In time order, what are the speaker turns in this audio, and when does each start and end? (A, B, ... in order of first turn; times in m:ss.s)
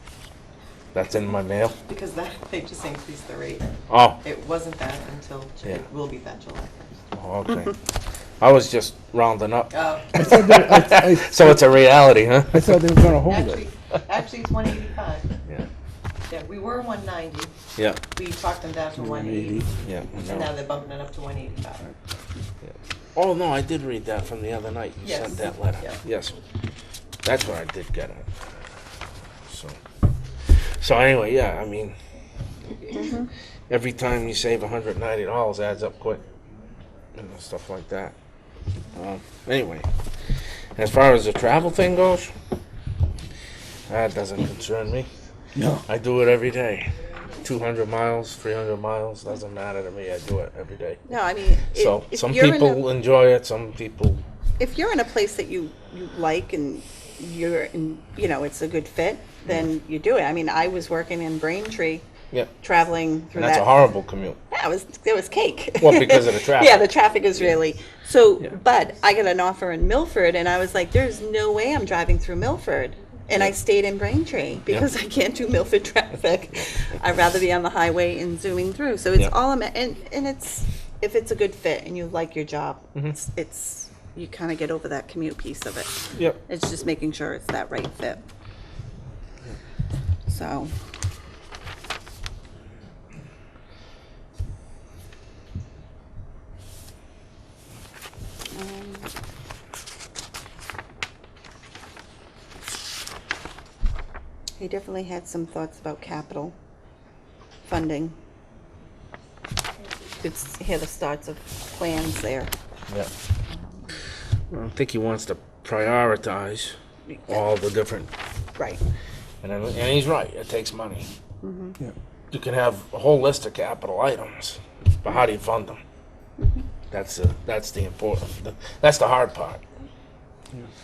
0:00.9-0:01.8 A
0:01.8-0:07.0 B
0:03.9-0:04.2 A
0:07.1-0:07.8 A
0:08.4-0:12.8 A
0:09.7-0:10.2 B
0:10.2-0:11.6 C
0:12.5-0:13.7 C
0:13.3-0:15.3 B
0:16.3-0:17.5 B
0:17.8-0:18.0 A
0:18.1-0:21.8 B
0:19.0-0:19.7 C
0:19.8-0:20.6 A
0:22.6-0:26.4 A
0:25.0-0:26.0 B
0:27.2-0:28.3 A
0:29.5-0:29.8 A
0:30.5-0:32.0 A
0:32.9-0:33.3 D
0:33.7-0:36.2 A
0:37.1-0:38.1 A
0:38.9-0:39.9 A
0:40.7-0:42.3 A
0:43.9-0:45.1 A
0:45.5-0:45.8 C
0:45.8-0:51.0 A
0:51.1-0:52.8 D
0:51.7-0:54.2 A
0:54.6-1:02.0 D
1:02.6-1:03.7 D
1:03.3-1:04.4 A
1:04.5-1:28.2 D
1:05.8-1:06.9 A
1:26.1-1:26.4 A
1:30.3-1:30.7 D
1:38.5-1:39.1 D
1:44.6-1:46.5 D
1:47.6-1:48.1 D
1:50.2-1:52.5 D
1:54.5-1:56.7 A
1:57.1-1:57.4 D
1:57.3-1:58.1 A
1:59.4-2:01.1 A
2:01.4-2:01.8 D
2:02.3-2:05.8 A
2:06.4-2:06.6 D
2:06.9-2:09.6 A